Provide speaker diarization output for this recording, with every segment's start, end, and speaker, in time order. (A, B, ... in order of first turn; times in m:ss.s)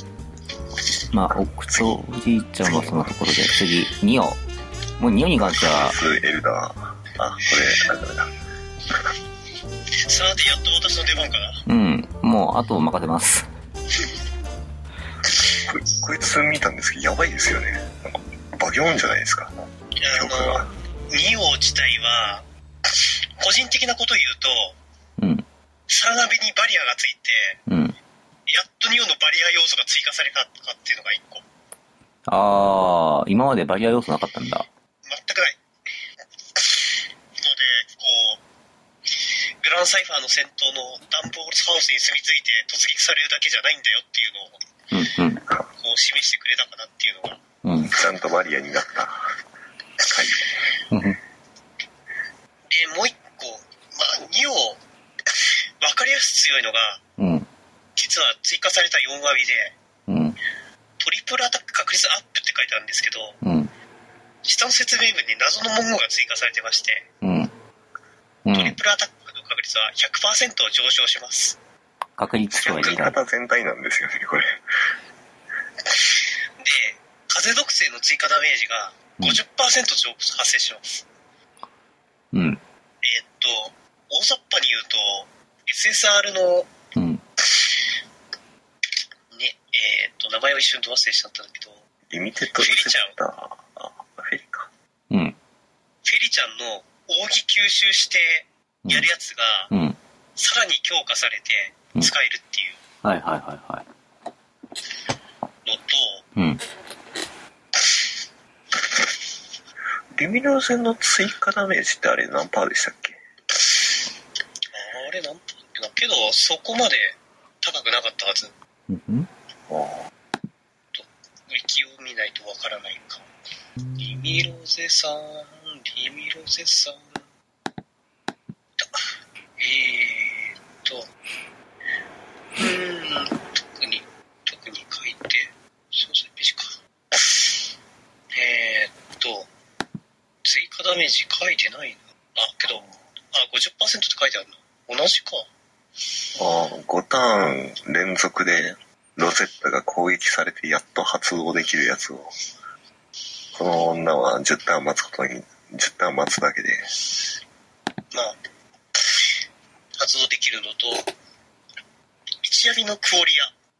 0:01.1-0:04.4 A
0:01.3-0:02.0 B
0:02.6-0:03.3 B
0:05.0-0:06.0 A
0:05.6-0:08.3 B
0:10.1-0:11.6 C
0:11.7-0:13.5 A
0:15.7-0:19.5 B
0:20.0-0:24.8 C
0:20.1-0:20.7 B
0:25.2-0:25.4 A
0:25.9-0:27.6 C
0:27.7-0:28.0 A
0:28.5-0:31.4 C
0:32.3-0:34.7 A
0:35.0-0:35.6 C
0:36.6-0:36.8 C
0:37.4-0:38.4 C
0:39.6-0:44.6 C
0:44.9-0:45.4 A
0:45.7-0:47.4 C
0:47.6-0:48.0 A
0:47.9-0:49.3 B
0:50.0-0:50.7 B
0:50.9-0:51.2 A
0:52.7-0:54.8 C
0:55.8-0:57.0 C
0:57.2-0:57.5 A
0:58.0-0:59.8 C
1:00.1-1:00.4 A
1:01.0-1:03.4 C
1:03.4-1:03.7 A
1:04.4-1:07.1 C
1:07.2-1:07.5 A
1:08.4-1:08.8 A
1:08.5-1:11.6 C
1:12.2-1:13.2 A
1:12.5-1:14.6 B
1:12.6-1:13.1 C
1:16.6-1:21.1 C
1:22.3-1:22.6 A
1:23.0-1:26.7 C
1:27.0-1:27.2 A
1:29.3-1:31.8 C
1:32.1-1:34.7 B
1:32.6-1:33.2 C
1:35.1-1:35.4 A
1:36.0-1:39.7 C
1:38.8-1:39.1 A
1:39.7-1:40.0 A
1:40.4-1:42.8 C
1:43.0-1:43.8 A
1:45.6-1:46.2 C
1:46.4-1:46.6 A
1:50.2-1:53.2 B
1:54.7-1:58.5 C
1:58.9-1:59.3 A
1:59.7-2:00.1 B
2:00.9-2:03.3 C
2:03.8-2:04.5 A
2:04.0-2:07.2 C
2:08.8-2:09.1 C
2:09.6-2:11.1 C
2:12.6-2:17.5 C
2:18.4-2:19.5 C
2:20.4-2:25.5 C
2:22.7-2:22.9 B
2:26.4-2:32.3 B
2:33.5-2:36.9 B
2:38.1-2:38.4 C
2:40.0-2:41.1 C
2:42.4-2:43.5 C